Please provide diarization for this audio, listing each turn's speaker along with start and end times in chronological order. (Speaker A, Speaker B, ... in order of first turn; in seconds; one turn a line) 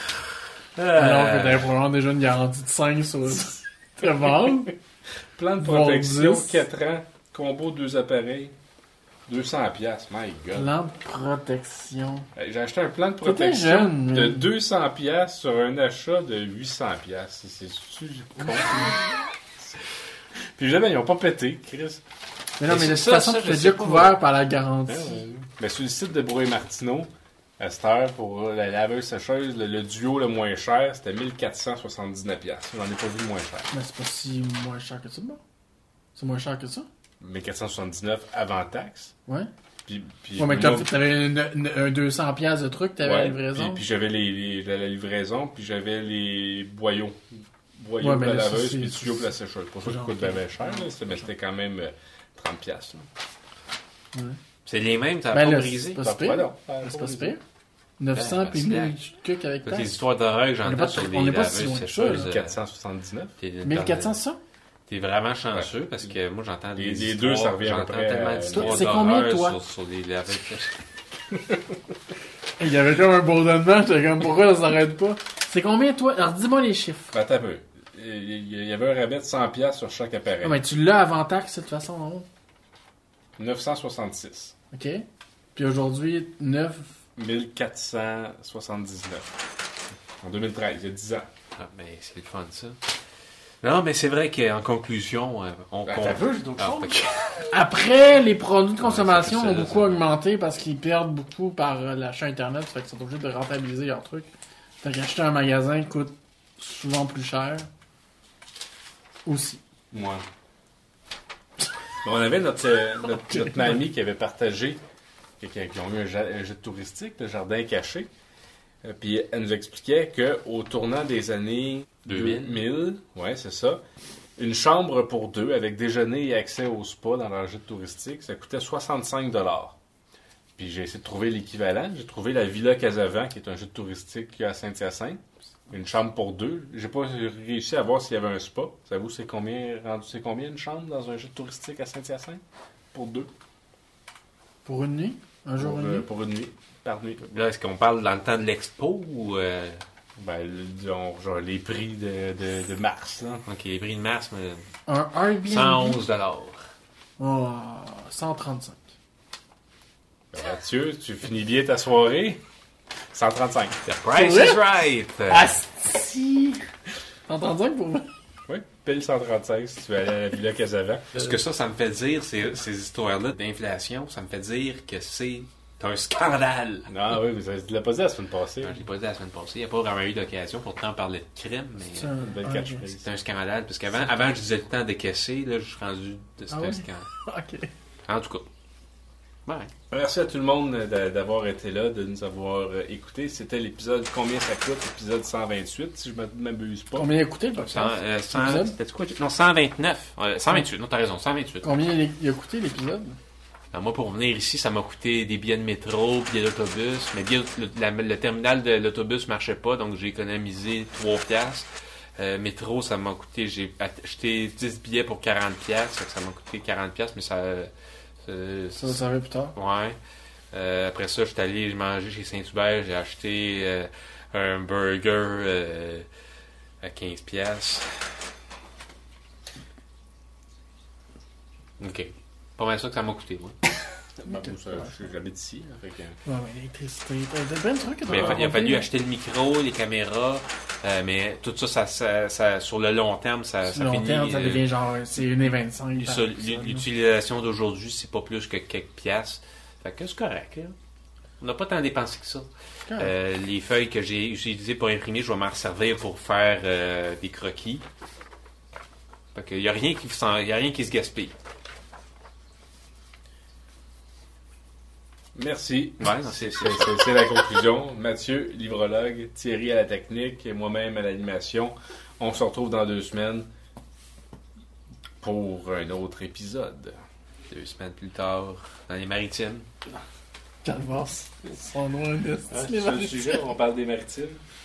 Speaker A: 0.8-1.7
Speaker B: 0.9-4.7
Speaker C: 5.3-8.5
Speaker B: 5.6-6.6
Speaker C: 9.3-10.7
Speaker B: 10.5-12.3
Speaker C: 12.3-19.0
Speaker B: 13.2-14.5
Speaker B: 18.4-18.9
Speaker C: 20.6-22.0
Speaker B: 22.6-25.2
Speaker A: 22.6-24.2
Speaker C: 24.9-33.7
Speaker B: 33.7-35.4
Speaker B: 36.1-36.9
Speaker C: 37.2-39.1
Speaker C: 39.9-40.9
Speaker B: 40.4-43.8
Speaker C: 43.0-53.0
Speaker B: 48.0-50.9
Speaker A: 54.6-56.0
Speaker B: 55.3-57.4
Speaker C: 56.0-57.4
Speaker B: 58.0-60.0
Speaker A: 58.1-58.9
Speaker A: 59.6-62.6
Speaker B: 60.6-62.3
Speaker C: 62.1-63.3
Speaker A: 63.4-64.2
Speaker B: 63.6-64.4
Speaker A: 64.9-70.7
Speaker C: 65.5-66.1
Speaker C: 66.8-69.0
Speaker B: 68.5-69.6
Speaker B: 72.6-77.1
Speaker C: 77.1-80.6
Speaker B: 80.4-82.3
Speaker C: 83.4-84.5
Speaker B: 84.7-86.9
Speaker C: 87.2-89.3
Speaker C: 90.2-91.3
Speaker A: 91.5-92.8
Speaker A: 93.6-97.5
Speaker C: 95.8-97.0
Speaker B: 97.5-104.3
Speaker A: 98.8-100.0
Speaker B: 104.8-107.7
Speaker B: 109.2-109.6
Speaker C: 109.9-110.2
Speaker C: 112.0-114.8
Speaker C: 115.4-118.1
Speaker C: 118.8-123.8
Speaker A: 122.0-122.6
Speaker C: 124.4-129.7
Speaker C: 130.6-142.4
Speaker C: 142.9-143.3
Speaker B: 144.6-146.1
Speaker C: 145.6-147.2
Speaker A: 147.2-149.8
Speaker C: 150.2-153.4
Speaker A: 153.4-154.7
Speaker B: 154.9-156.0
Speaker A: 155.4-156.6
Speaker B: 157.2-158.9
Speaker C: 160.3-162.4
Speaker C: 163.1-163.8
Speaker A: 163.8-165.6
Speaker B: 164.1-166.6
Speaker B: 167.3-168.1
Speaker C: 168.5-171.1
Speaker A: 171.1-176.9
Speaker C: 176.9-178.8
Speaker A: 178.6-182.1
Speaker B: 181.8-182.8
Speaker C: 182.2-183.1
Speaker A: 183.0-187.1
Speaker B: 186.5-187.7
Speaker A: 188.1-188.5
Speaker A: 189.4-189.7
Speaker C: 189.9-197.1
Speaker B: 196.9-198.8
Speaker A: 197.6-201.7
Speaker B: 201.6-203.2
Speaker A: 203.7-217.7
Speaker A: 218.2-219.0
Speaker B: 218.8-219.5
Speaker A: 219.5-220.0
Speaker A: 220.5-226.1
Speaker A: 226.8-227.9
Speaker A: 231.8-233.5
Speaker C: 234.2-236.2
Speaker B: 234.3-235.0
Speaker B: 236.2-238.9
Speaker A: 238.1-244.7
Speaker C: 238.1-238.4
Speaker B: 243.6-246.8
Speaker A: 245.9-250.8
Speaker A: 251.4-257.8
Speaker B: 252.9-253.1
Speaker A: 259.3-261.3
Speaker C: 265.3-273.5
Speaker A: 266.0-267.3
Speaker C: 275.2-277.0
Speaker A: 277.5-279.7
Speaker B: 280.6-283.5
Speaker C: 282.5-284.4